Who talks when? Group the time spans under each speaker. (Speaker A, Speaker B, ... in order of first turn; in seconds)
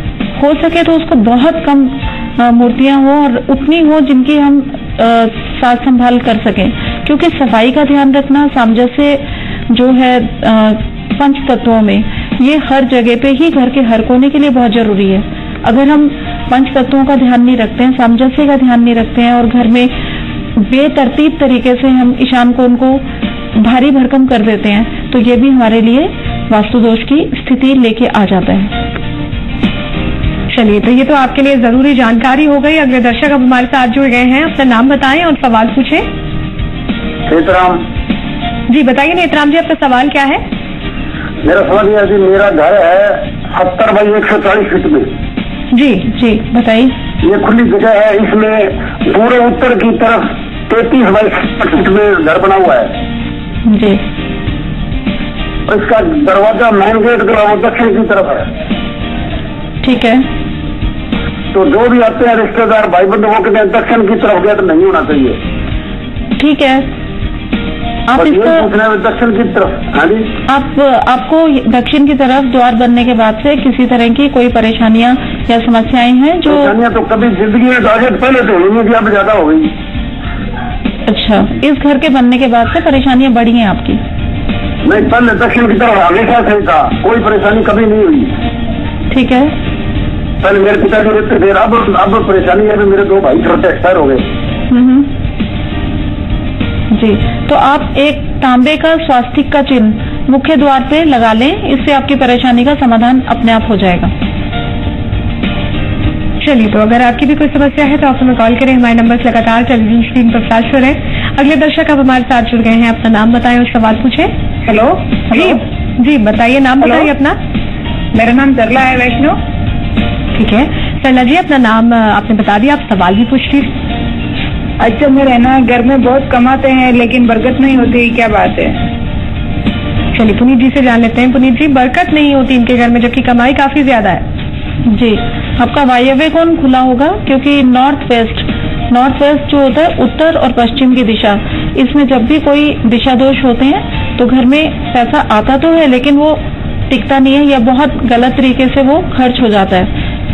Speaker A: 0.4-19.9, 20.6-28.7, 46.1-46.9, 53.7-54.0, 59.8-60.2, 66.4-66.8, 68.1-68.7, 70.5-76.7, 81.1-84.0, 89.1-89.5, 94.7-95.1, 96.9-104.1, 134.9-149.9
Speaker B: 30.5-36.1, 38.7-40.4, 45.7-46.0, 106.4-114.3, 115.3-117.4, 120.3-123.7, 130.1-134.2
Speaker C: 37.3-37.7, 41.5-43.0, 43.6-45.0, 47.3-48.5, 49.1-52.7, 55.7-58.2, 61.5-65.3, 68.8-70.1, 76.9-79.6, 84.9-88.2, 90.5-94.2
Speaker D: 114.7-115.6, 116.8-117.1, 118.1-119.4, 124.8-128.8